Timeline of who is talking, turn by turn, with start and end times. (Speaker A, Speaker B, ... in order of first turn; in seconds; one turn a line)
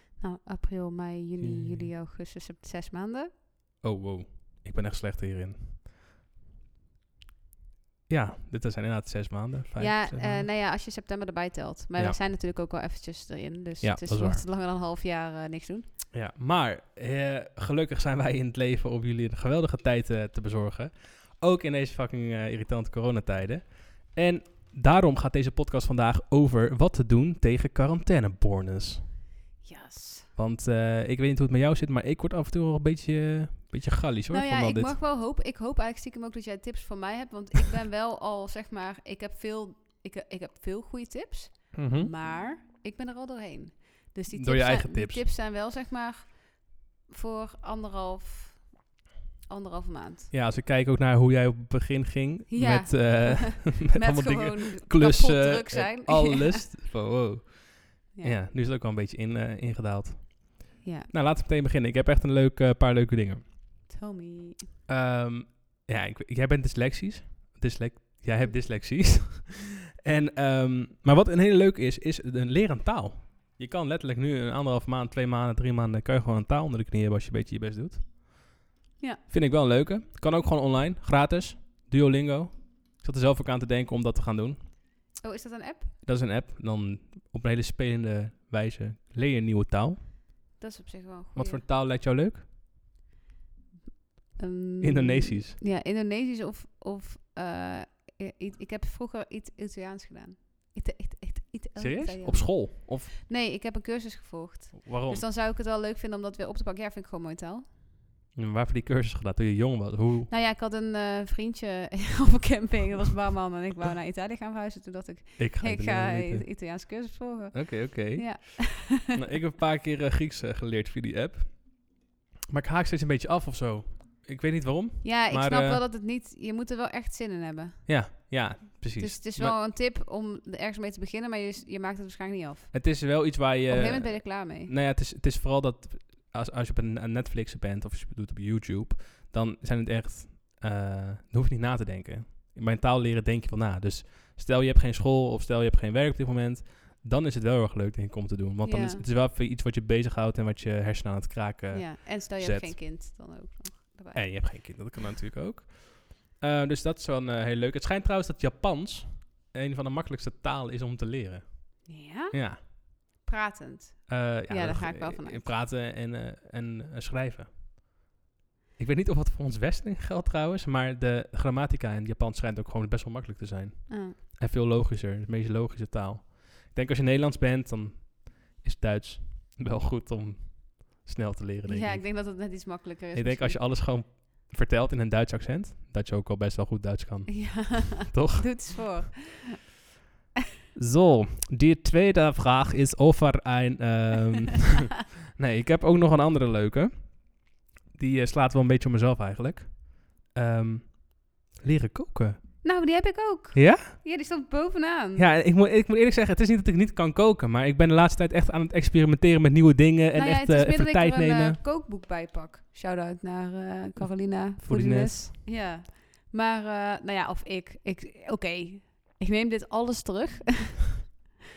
Speaker A: 0.2-3.3
Speaker B: 1.4-1.9
Speaker B: 3.8-5.8
Speaker B: 8.1-10.5
Speaker A: 9.8-15.9
Speaker B: 13.8-14.4
Speaker B: 16.1-29.1
Speaker A: 29.6-30.3
Speaker B: 30.3-34.9
Speaker A: 34.3-48.8
Speaker B: 41.7-42.1
Speaker B: 44.3-45.2
Speaker A: 49.5-50.3
Speaker B: 50.3-63.5
Speaker A: 52.5-56.7
Speaker A: 58.1-58.4
Speaker A: 60.8-61.1
Speaker A: 63.9-64.7
Speaker B: 64.9-78.5
Speaker B: 79.3-84.6
Speaker A: 85.2-85.9
Speaker B: 86.0-90.1
Speaker A: 90.6-91.6
Speaker B: 91.3-92.5
Speaker A: 94.3-107.7
Speaker B: 94.8-95.6
Speaker B: 101.8-103.1
Speaker B: 104.8-105.2
Speaker B: 108.3-110.3
Speaker A: 110.3-119.2
Speaker B: 115.4-125.8
Speaker A: 125.0-127.9
Speaker B: 127.8-129.6
Speaker A: 129.0-132.9
Speaker B: 132.7-152.8
Speaker A: 133.7-134.7
Speaker A: 148.6-149.1
Speaker A: 151.7-154.9
Speaker B: 154.1-162.6
Speaker A: 161.8-165.5
Speaker B: 164.1-167.8
Speaker B: 168.8-188.8
Speaker A: 173.9-174.2
Speaker A: 181.7-183.7
Speaker A: 187.3-189.7
Speaker B: 190.7-202.6
Speaker A: 202.6-205.3
Speaker B: 203.5-204.0
Speaker B: 205.2-211.6
Speaker A: 210.1-221.2
Speaker B: 214.6-215.3